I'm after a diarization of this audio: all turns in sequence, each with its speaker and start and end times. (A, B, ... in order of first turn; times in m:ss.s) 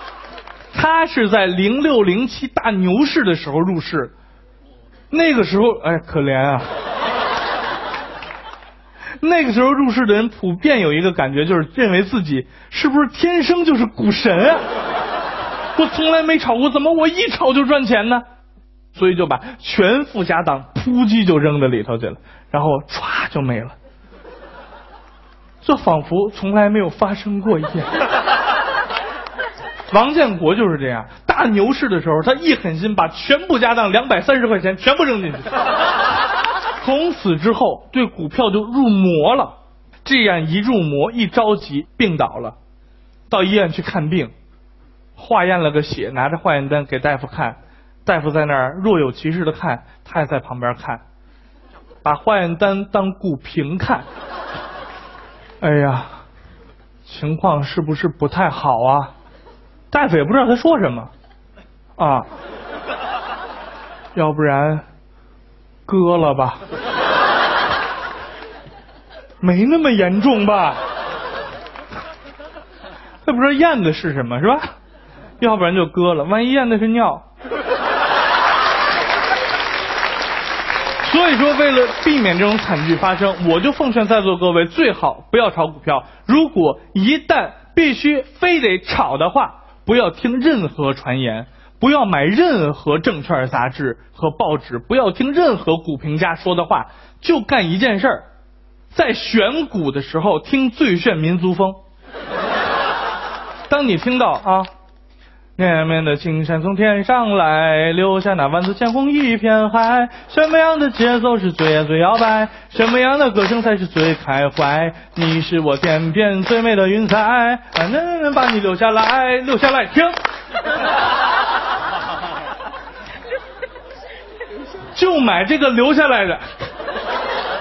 0:00.7-0:04.1 A
0:05.1-0:06.7 A
0:09.2-0:14.6 A
0:15.8-0:18.2 A
0:19.0-0:23.8 A
0:25.6-0:27.9 A
0:29.9-0:35.5 A
0:36.8-0:39.5 A
0:40.0-0:42.6 A
0:43.3-0:44.3 A
0:45.2-0:51.0 A
0:52.0-0:54.1 A
0:55.6-0:56.2 A
0:57.1-0:59.1 A
0:59.9-1:01.1 A
1:02.0-1:02.3 A
1:04.2-1:04.8 A
1:05.9-1:06.6 A
1:09.4-1:10.8 A
1:13.2-1:14.7 A
1:15.4-1:17.2 A
1:21.0-1:38.2 A
1:38.9-1:41.8 A
1:43.7-1:44.7 A
1:45.6-2:00.2 A
2:04.9-2:06.4 A